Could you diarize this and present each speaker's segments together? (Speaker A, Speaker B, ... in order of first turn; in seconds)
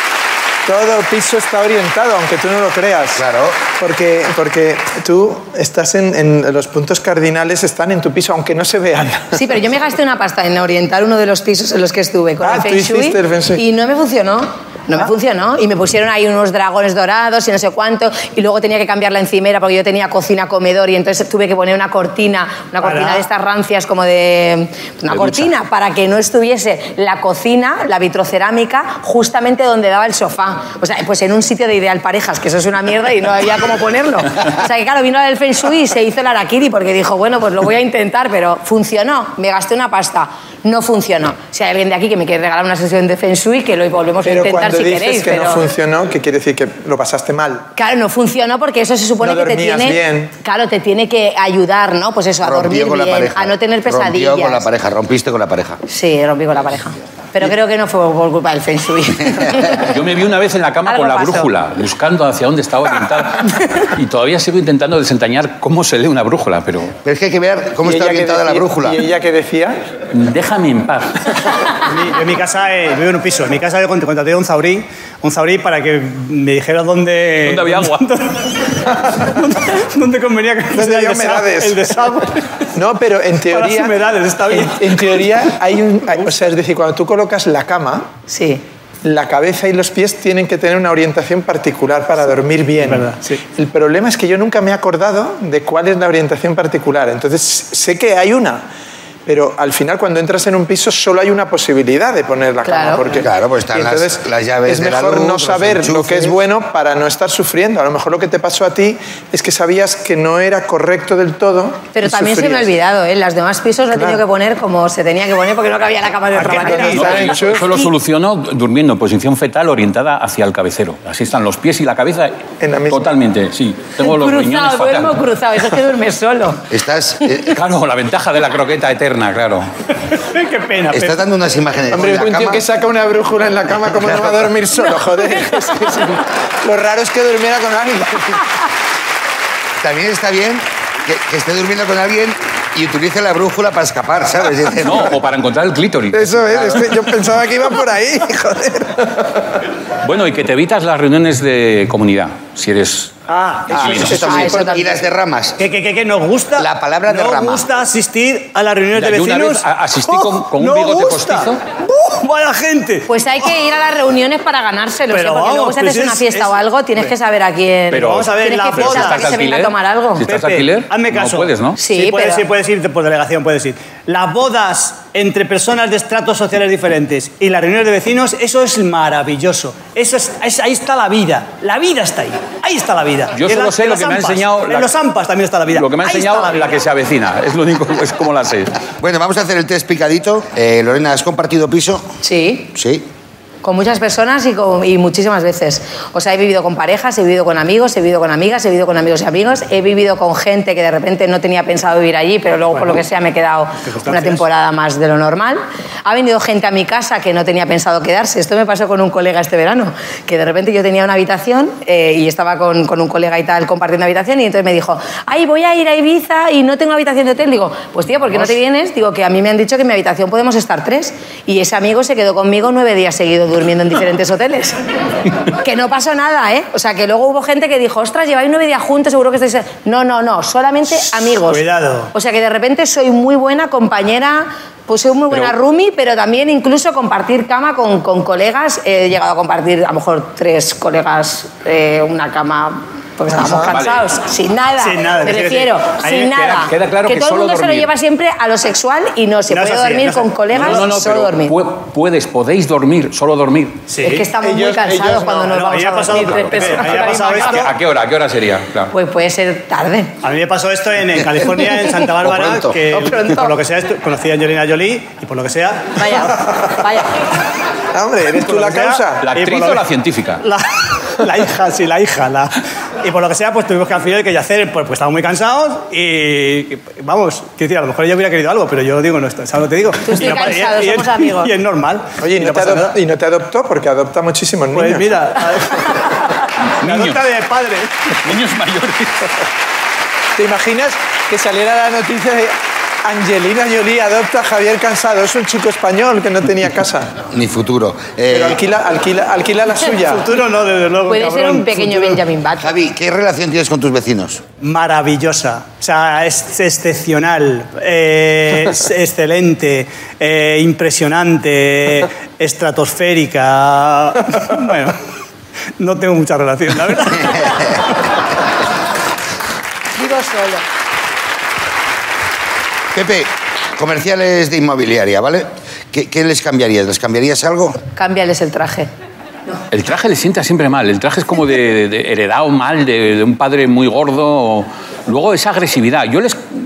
Speaker A: 0.7-3.2, 3.8-9.4, 12.4-13.6, 44.2-47.7, 49.2-50.3, 67.8-69.8, 80.7-81.9, 82.7-84.0, 84.5-88.1, 89.0-98.7, 99.3-112.7, 113.9-114.2, 116.3-117.7, 122.6-123.1, 131.9-138.4, 146.1-149.4, 153.7-154.9, 243.3-243.7, 254.4-255.7, 267.9-269.7, 282.2-285.3, 290.4-297.1, 298.3-300.3
Speaker B: 3.1-3.6, 52.4-55.8, 67.0-69.0, 103.2-106.4, 126.7-127.6, 130.9-132.6, 134.0-134.4, 139.8-145.2, 153.9-155.6, 156.6-157.7, 189.0-192.1, 192.7-193.1, 262.2-262.8, 297.3-298.6, 302.6-304.4, 317.2-317.8, 322.9-327.8
Speaker C: 9.3-45.6, 47.8-54.7, 55.9-60.0, 60.9-61.5, 88.3-88.6, 102.7-103.0, 111.9-117.9, 124.0-126.7, 135.0-135.6, 154.1-154.9, 163.1-170.2, 171.8-172.4, 192.2-192.7, 193.6-224.8, 225.5-251.6, 254.0-257.7, 258.9-260.1, 262.9-263.6, 266.0-267.1, 280.0-281.5, 301.1-302.7, 319.9-320.7, 327.9-328.9
Speaker D: 22.8-23.2, 71.8-82.5, 83.5-85.3, 92.2-93.4, 116.4-117.2, 130.2-131.2, 153.3-153.9, 155.6-163.1, 165.1-166.6, 167.9-169.3, 170.3-186.8, 203.8-204.4, 231.5-232.1, 244.8-246.7, 249.5-250.8, 253.9-254.2, 255.4-257.7, 260.2-266.3, 268.4-269.8, 270.4-283.0, 284.7-286.1, 286.8-288.2, 300.0-302.2, 304.6-315.0, 315.8-317.8
Speaker E: 25.1-25.5, 59.9-67.0, 70.1-71.4, 77.5-78.1, 116.5-125.2, 127.5-129.7, 144.8-146.9, 150.0-153.2, 153.7-154.3, 158.9-161.6, 167.9-171.8, 183.3-184.9, 185.7-188.8, 235.3-235.6, 243.3-244.1, 246.7-247.9, 250.5-253.9, 256.2-258.9, 269.2-270.4, 286.8-287.3, 288.2-289.3, 329.7-336.4